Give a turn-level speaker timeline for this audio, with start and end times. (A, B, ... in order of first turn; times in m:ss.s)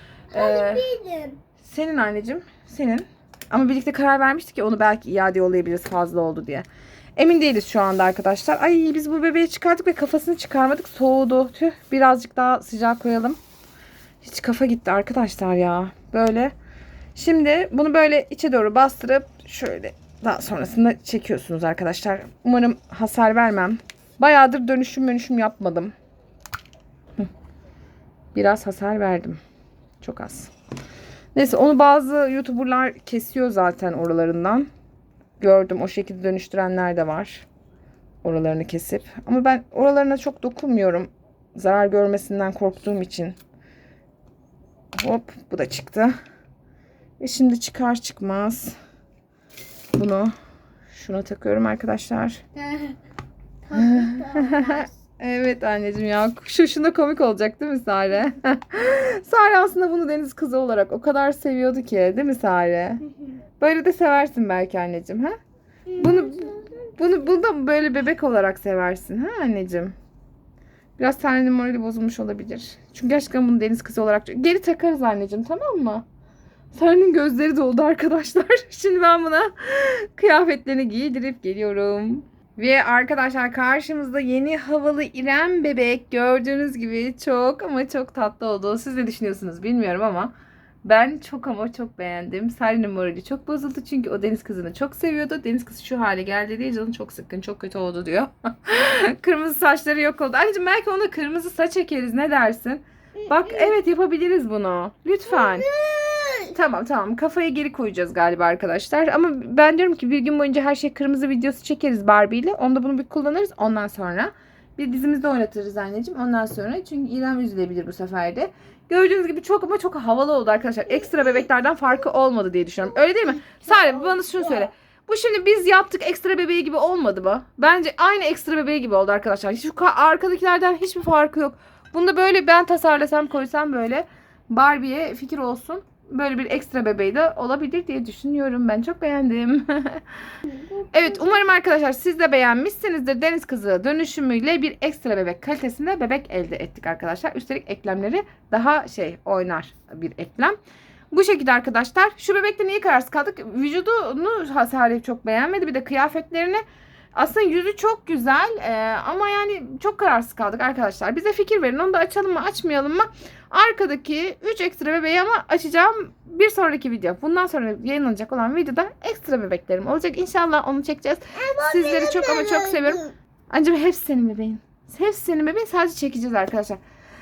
0:00.3-0:00.8 A
0:00.3-0:01.4 B
0:01.6-0:13.4 A
0:14.2-0:16.5 A
0:17.1-0:25.9 A
0:28.3-0:29.4 A
0:30.0-0:30.5 A
0:31.3-0:34.7 A
0:35.4-0:37.4 A
0:38.2-0:43.4 A
0:44.9-0:46.1 A
0:47.2-0:48.7 A
0:49.9-0:50.3 A
0:50.9-0:52.4 A
0:53.7-0:54.8 B
0:53.7-1:03.0 A
1:03.6-1:05.3 A
1:05.9-1:09.9 A
1:11.0-1:16.0 A
1:16.7-1:30.3 A
1:30.8-1:45.7 A
1:45.5-1:46.5 B
1:46.5-2:20.0 A
2:20.9-2:30.6 A
2:31.1-2:36.6 A
2:37.1-2:56.8 A
2:51.4-2:53.1 B